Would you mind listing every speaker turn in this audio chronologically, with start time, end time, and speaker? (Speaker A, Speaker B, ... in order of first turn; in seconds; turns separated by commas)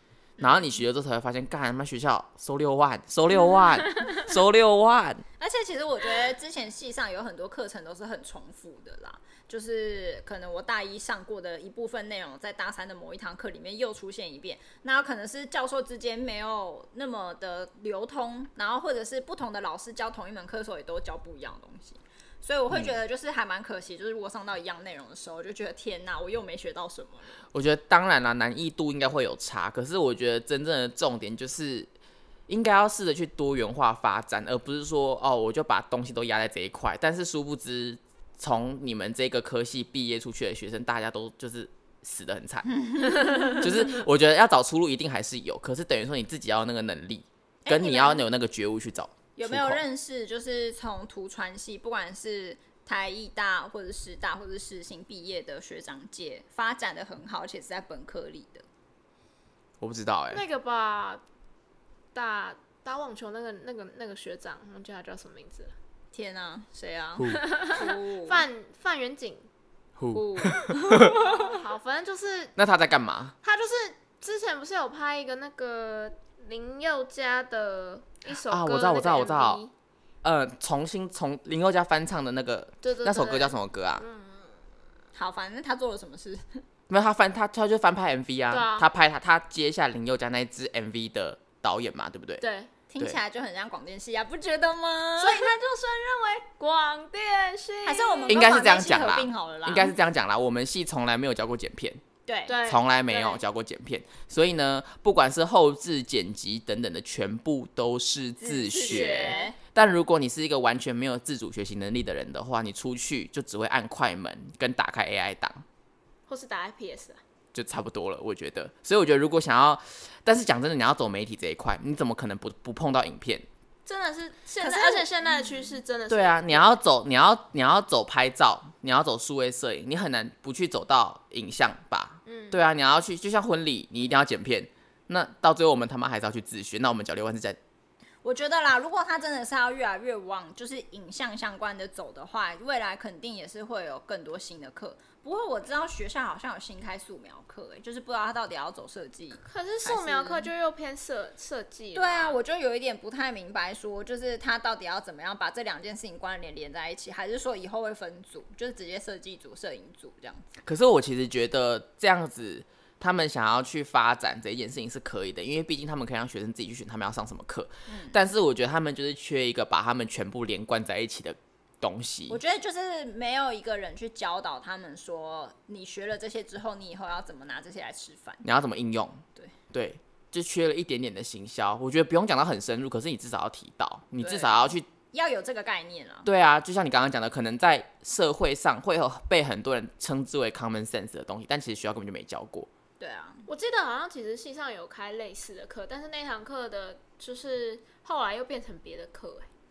Speaker A: 0.4-0.7, Speaker B: 0.4-5.2, Speaker A: 5.4-27.4, Speaker B: 27.5-31.9, Speaker B: 32.5-42.8, Speaker A: 42.9-43.7, Speaker B: 43.4-49.8, Speaker A: 47.6-48.3, Speaker A: 49.4-58.7, Speaker B: 59.8-60.4, Speaker C: 60.3-61.2, Speaker C: 62.1-65.7, Speaker A: 66.1-68.5, Speaker B: 67.2-67.4, Speaker C: 67.3-69.5, Speaker B: 70.0-71.2, Speaker A: 70.1-71.6, Speaker C: 70.5-72.5, Speaker B: 72.6-73.3, Speaker C: 73.4-79.7, Speaker B: 78.5-79.6, Speaker B: 80.2-84.0, Speaker C: 82.8-84.6, Speaker A: 85.1-86.6, Speaker B: 86.9-92.4, Speaker C: 88.5-88.9, Speaker C: 92.4-92.7, Speaker A: 92.9-95.6, Speaker C: 95.2-98.4, Speaker A: 97.8-99.9, Speaker B: 98.3-102.0, Speaker A: 102.3-102.6, Speaker C: 102.5-103.4, Speaker B: 102.7-115.6, Speaker A: 108.4-109.6, Speaker C: 108.7-109.5, Speaker C: 116.3-117.2, Speaker B: 117.5-123.5, Speaker C: 123.9-126.8, Speaker A: 124.6-125.8, Speaker B: 126.1-137.6, Speaker C: 132.3-132.6, Speaker A: 138.2-150.5, Speaker C: 149.4-152.4, Speaker A: 151.9-160.5, Speaker B: 160.7-172.4, Speaker A: 167.9-168.2, Speaker A: 172.3-178.4, Speaker B: 178.4-184.9, Speaker A: 184.2-186.3, Speaker B: 186.2-192.7, Speaker A: 193.0-193.5, Speaker C: 193.5-199.5